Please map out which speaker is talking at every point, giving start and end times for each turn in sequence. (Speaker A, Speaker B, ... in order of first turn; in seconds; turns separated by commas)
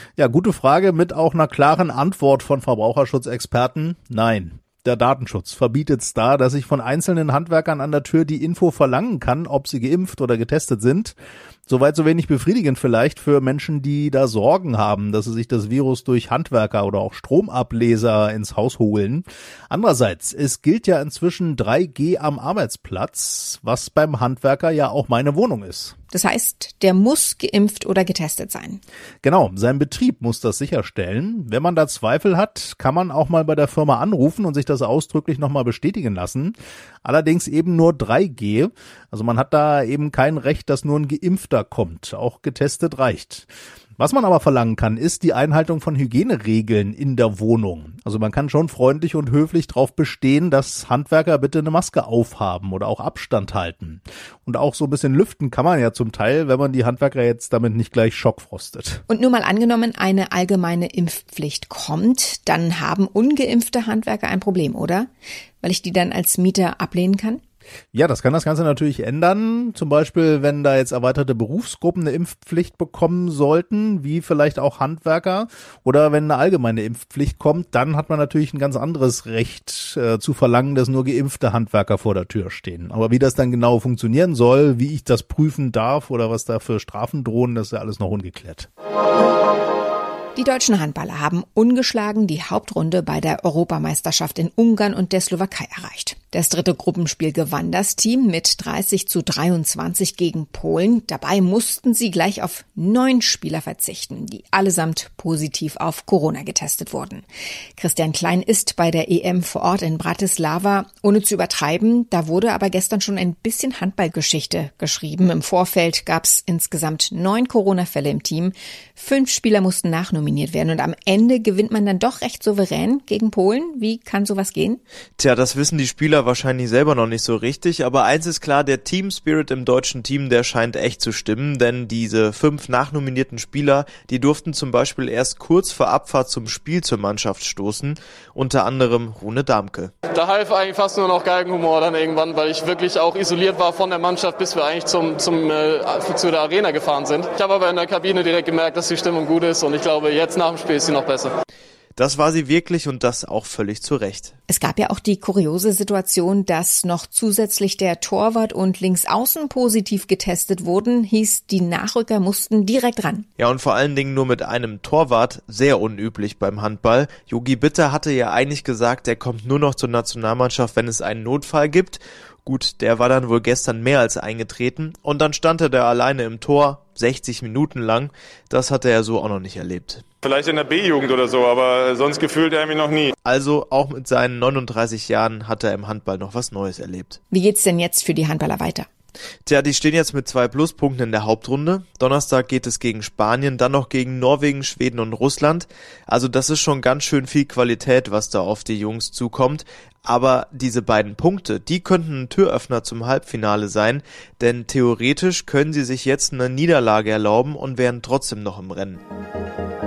Speaker A: 0.2-25.9, Speaker B: 26.1-28.8, Speaker A: 29.2-59.0, Speaker B: 59.1-65.1, Speaker B: 65.6-67.4, Speaker A: 67.9-88.7, Speaker B: 90.3-107.2, Speaker B: 107.8-124.8, Speaker C: 125.2-139.9, Speaker D: 140.1-151.3, Speaker C: 151.9-154.3, Speaker B: 154.5-163.3, Speaker C: 163.4-180.1, Speaker E: 180.3-183.0, Speaker C: 183.2-187.2, Speaker B: 187.3-188.9, Speaker C: 189.4-209.0